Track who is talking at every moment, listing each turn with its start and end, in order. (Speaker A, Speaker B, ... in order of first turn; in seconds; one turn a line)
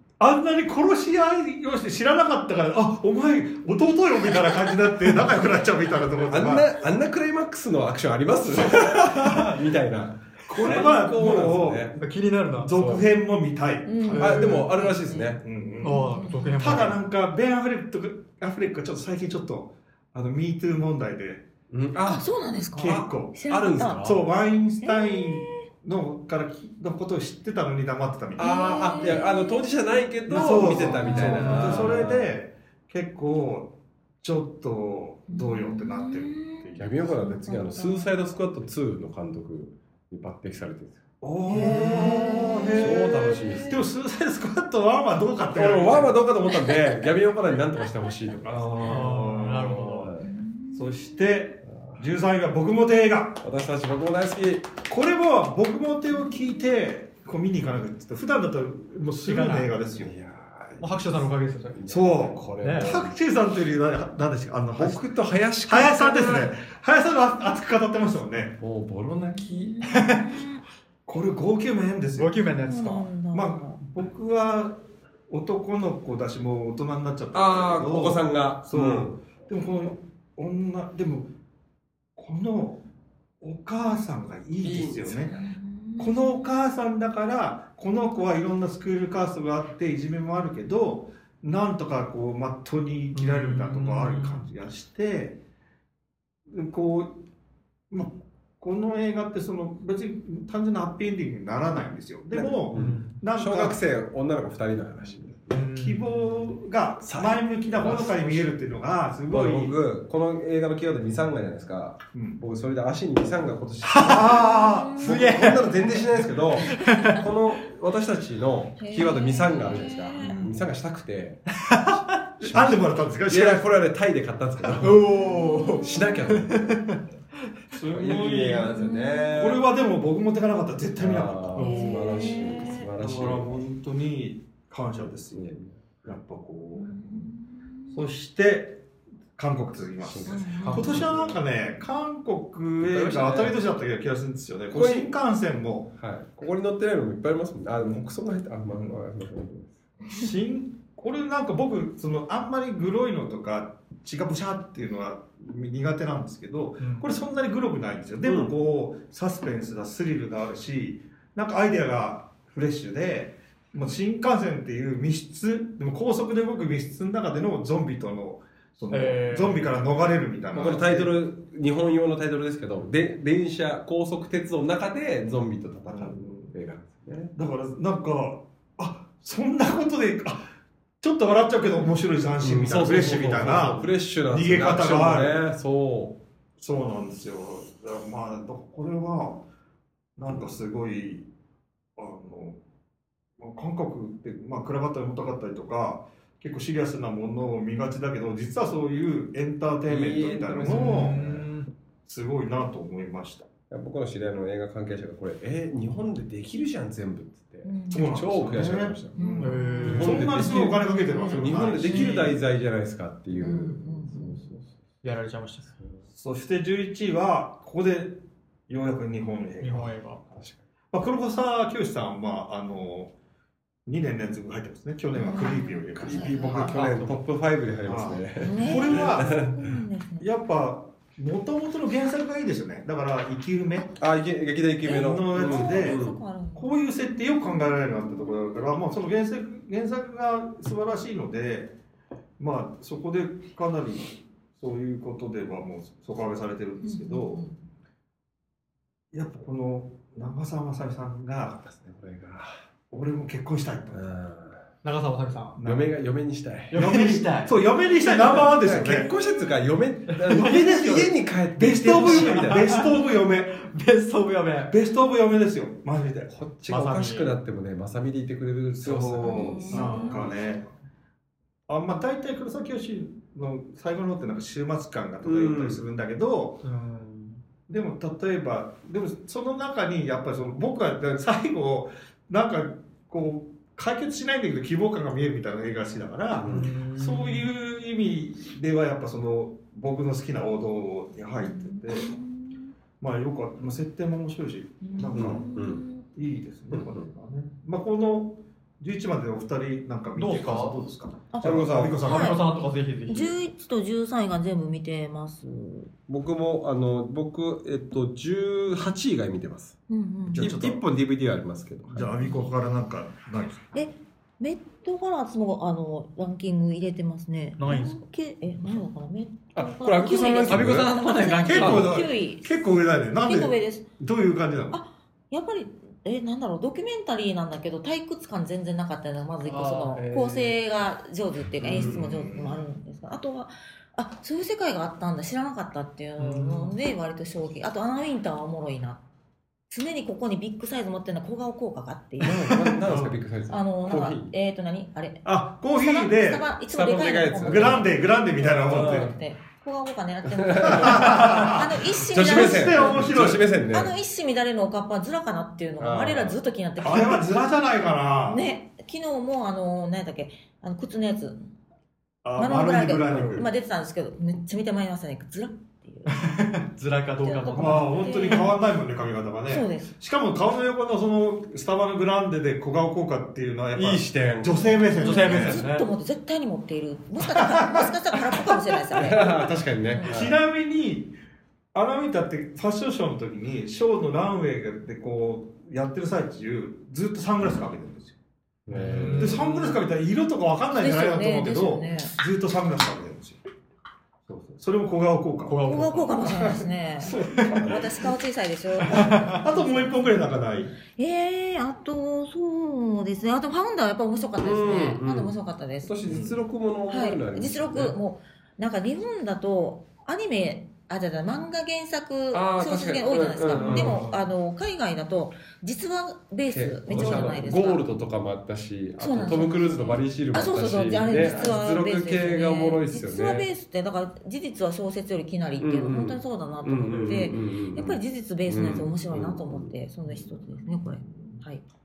Speaker A: 0.2-6.7
Speaker B: 6.2-12.0
Speaker A: 8.3-9.3
Speaker A: 10.4-12.0
Speaker C: 10.6-10.9
Speaker C: 12.0-12.8
Speaker A: 12.6-14.7
Speaker B: 12.7-13.1
Speaker D: 13.8-16.8
Speaker C: 14.1-14.4
Speaker B: 14.2-15.4
Speaker A: 15.3-21.5
Speaker C: 15.8-17.0
Speaker B: 21.7-24.2
Speaker D: 22.0-24.1
Speaker A: 22.8-29.2
Speaker D: 24.8-25.6
Speaker D: 28.4-29.8
Speaker B: 28.4-32.3
Speaker A: 30.3-37.1
Speaker D: 30.4-32.0
Speaker D: 35.3-38.1
Speaker B: 36.8-41.0
Speaker A: 41.2-46.2
Speaker D: 41.5-43.8
Speaker C: 41.5-42.0
Speaker B: 42.7-43.8
Speaker B: 45.5-49.1
Speaker D: 46.5-47.1
Speaker A: 48.4-50.1
Speaker C: 48.8-50.1
Speaker B: 49.8-50.3
Speaker D: 50.2-51.2
Speaker A: 50.7-53.4
Speaker B: 51.7-52.0
Speaker B: 53.4-54.8
Speaker A: 54.9-60.1
Speaker C: 59.2-59.7
Speaker B: 59.9-63.1
Speaker C: 60.8-61.8
Speaker A: 61.9-65.0
Speaker C: 62.6-63.0
Speaker B: 64.8-66.5
Speaker A: 65.6-68.5
Speaker B: 68.5-69.8
Speaker D: 69.3-70.6
Speaker C: 69.8-70.3
Speaker A: 71.0-72.4
Speaker C: 72.2-73.1
Speaker D: 72.6-73.8
Speaker A: 73.3-81.3
Speaker B: 77.3-79.1
Speaker A: 82.2-82.8
Speaker A: 83.4-85.3
Speaker B: 84.6-85.3
Speaker D: 85.3-86.5
Speaker A: 86.0-95.4
Speaker C: 93.1-94.5
Speaker A: 96.5-97.2
Speaker A: 97.9-103.8
Speaker B: 102.3-105.6
Speaker C: 102.7-103.2
Speaker C: 105.5-106.5
Speaker A: 105.7-109.8
Speaker B: 107.0-108.5
Speaker B: 109.3-121.4
Speaker A: 112.1-112.4
Speaker C: 113.8-114.4
Speaker A: 114.0-115.0
Speaker D: 114.3-115.2
Speaker C: 115.0-115.9
Speaker C: 116.6-117.2
Speaker D: 116.6-117.2
Speaker D: 118.8-120.4
Speaker A: 120.2-120.6
Speaker C: 121.6-122.0
Speaker A: 122.4-123.8
Speaker B: 122.4-126.8
Speaker A: 124.6-125.0
Speaker C: 124.8-127.0
Speaker D: 125.2-126.2
Speaker A: 127.7-131.8
Speaker B: 127.9-129.6
Speaker D: 128.6-129.3
Speaker B: 131.0-133.6
Speaker D: 131.6-132.8
Speaker C: 131.6-132.3
Speaker A: 132.9-135.5
Speaker B: 135.3-136.0
Speaker A: 136.0-137.3
Speaker D: 136.8-138.0
Speaker A: 137.9-138.8
Speaker A: 139.3-145.9
Speaker B: 140.0-141.4
Speaker D: 140.2-141.1
Speaker C: 140.6-141.1
Speaker B: 142.8-143.6
Speaker B: 144.7-145.1
Speaker B: 146.0-149.8
Speaker A: 150.1-171.1
Speaker C: 156.8-157.1
Speaker B: 158.2-158.5
Speaker C: 168.9-169.7
Speaker B: 170.5-177.3
Speaker A: 175.9-176.5
Speaker A: 177.3-180.5
Speaker A: 181.0-185.4
Speaker B: 182.4-186.2
Speaker A: 186.6-189.4
Speaker A: 190.2-191.3
Speaker A: 192.0-192.6
Speaker A: 193.4-201.3
Speaker B: 199.9-201.4
Speaker C: 200.7-201.7
Speaker A: 202.1-203.5
Speaker B: 203.7-209.2
Speaker D: 207.6-208.1
Speaker A: 207.9-212.3
Speaker D: 209.1-212.4
Speaker C: 209.4-210.3
Speaker B: 209.8-214.7
Speaker D: 213.3-214.5
Speaker C: 215.0-215.7
Speaker A: 216.1-220.0
Speaker C: 219.6-220.2
Speaker B: 220.3-220.6
Speaker A: 220.9-223.1
Speaker A: 223.8-226.8
Speaker D: 225.1-226.6
Speaker B: 226.1-229.5
Speaker C: 226.3-227.2
Speaker A: 227.8-229.5
Speaker D: 228.4-230.3
Speaker A: 230.2-233.9
Speaker B: 234.0-236.2
Speaker D: 234.8-236.7
Speaker A: 234.8-236.0
Speaker A: 236.5-241.7
Speaker A: 242.4-247.4
Speaker D: 246.8-247.6
Speaker A: 249.1-251.6
Speaker B: 251.6-252.6
Speaker A: 252.9-254.1
Speaker B: 253.9-254.6
Speaker C: 254.8-255.6
Speaker A: 255.6-255.9
Speaker B: 255.6-256.9
Speaker C: 256.7-257.6
Speaker A: 256.7-259.1
Speaker C: 258.1-258.5
Speaker B: 258.2-262.9
Speaker D: 258.8-259.6
Speaker A: 260.2-263.6
Speaker C: 262.0-264.8
Speaker A: 264.7-266.4
Speaker B: 266.3-270.4
Speaker C: 266.7-267.3
Speaker A: 268.8-270.6
Speaker D: 269.2-270.2
Speaker C: 269.7-270.3
Speaker A: 271.7-276.6
Speaker B: 275.2-275.8
Speaker C: 276.6-277.4
Speaker A: 277.7-292.1
Speaker B: 286.4-286.7
Speaker C: 286.5-287.5
Speaker D: 291.4-292.7
Speaker A: 293.0-295.5
Speaker D: 294.8-296.1
Speaker B: 295.1-295.8
Speaker A: 296.1-302.4
Speaker B: 296.7-297.0
Speaker C: 300.1-300.8
Speaker D: 301.3-302.5
Speaker B: 301.4-302.0
Speaker C: 302.0-303.3
Speaker D: 303.1-305.9
Speaker B: 306.1-309.8
Speaker D: 309.9-310.6
Speaker A: 310.2-310.8
Speaker B: 310.4-312.1
Speaker A: 311.9-313.8
Speaker D: 312.2-312.5
Speaker D: 313.7-323.9
Speaker C: 317.6-318.0
Speaker B: 319.5-320.9
Speaker C: 320.4-321.9
Speaker A: 321.5-324.8
Speaker B: 321.6-321.9
Speaker D: 324.7-339.0
Speaker C: 329.5-330.2
Speaker B: 329.6-330.3
Speaker B: 331.6-332.0
Speaker A: 331.6-332.6
Speaker C: 336.2-336.8
Speaker D: 339.7-357.3
Speaker B: 342.2-344.3
Speaker A: 345.2-346.5
Speaker B: 346.7-347.8
Speaker A: 347.4-349.1
Speaker B: 348.4-349.1
Speaker B: 350.3-353.9
Speaker A: 350.6-353.5
Speaker B: 355.8-356.4
Speaker A: 356.8-358.4
Speaker D: 358.2-361.5
Speaker A: 362.2-363.5
Speaker D: 362.4-366.2
Speaker B: 363.1-363.4
Speaker C: 366.1-367.9
Speaker D: 367.2-368.5
Speaker A: 367.5-375.6
Speaker D: 369.5-369.9
Speaker B: 373.7-374.9
Speaker D: 374.6-380.1
Speaker C: 375.0-375.9
Speaker A: 377.2-378.6
Speaker B: 378.9-380.4
Speaker A: 380.0-381.1
Speaker A: 381.7-388.2
Speaker B: 388.6-389.4
Speaker C: 388.7-389.8
Speaker A: 389.1-393.4
Speaker D: 390.7-392.1
Speaker A: 394.3-397.9
Speaker C: 395.5-396.5
Speaker D: 395.6-400.1
Speaker C: 397.2-397.6
Speaker C: 398.9-399.4
Speaker A: 398.9-400.8
Speaker D: 400.9-406.1
Speaker B: 404.4-407.9
Speaker A: 406.0-406.4
Speaker D: 406.9-417.9
Speaker B: 412.3-414.1
Speaker C: 413.6-414.1
Speaker B: 416.5-423.5
Speaker D: 419.0-431.6
Speaker B: 425.6-429.7
Speaker A: 430.0-431.4